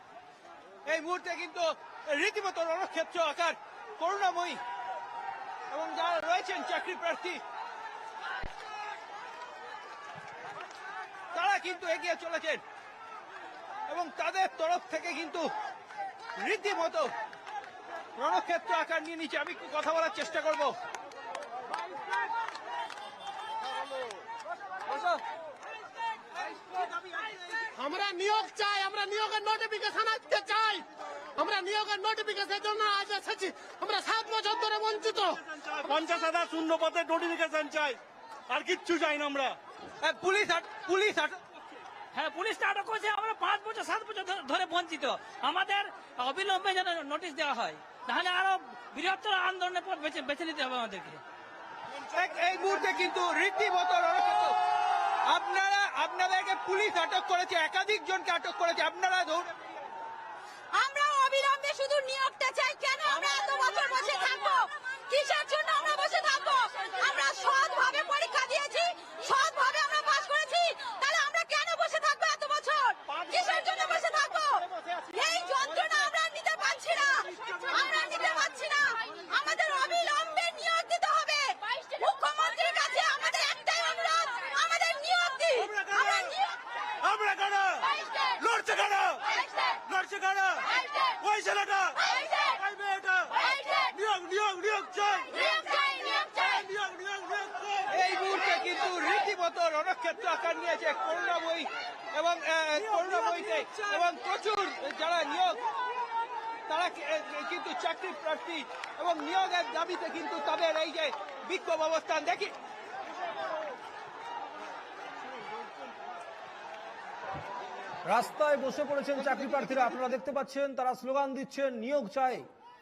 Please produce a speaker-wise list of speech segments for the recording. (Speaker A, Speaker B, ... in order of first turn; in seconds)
Speaker A: 0.9-4.6, 5.7-7.4, 11.3-12.6, 13.9-15.5, 16.4-17.1, 18.2-20.8, 26.8-27.3, 40.0-41.4, 52.2-54.6, 55.2-59.7, 97.9-105.6, 106.7-112.5, 119.3-120.1
Speaker B: 27.8-30.8, 31.4-35.4
Speaker C: 35.5-39.6, 85.6-86.4, 87.0-87.8, 88.5-89.2, 90.0-90.6, 91.2-92.0, 92.6-93.3, 94.0-95.3, 96.6-97.9
Speaker D: 42.1-51.2
Speaker E: 60.7-86.5, 87.8-88.5, 89.3-89.8, 90.7-91.2, 92.0-92.6, 93.3-94.0, 95.3-96.7
Speaker F: 118.1-122.4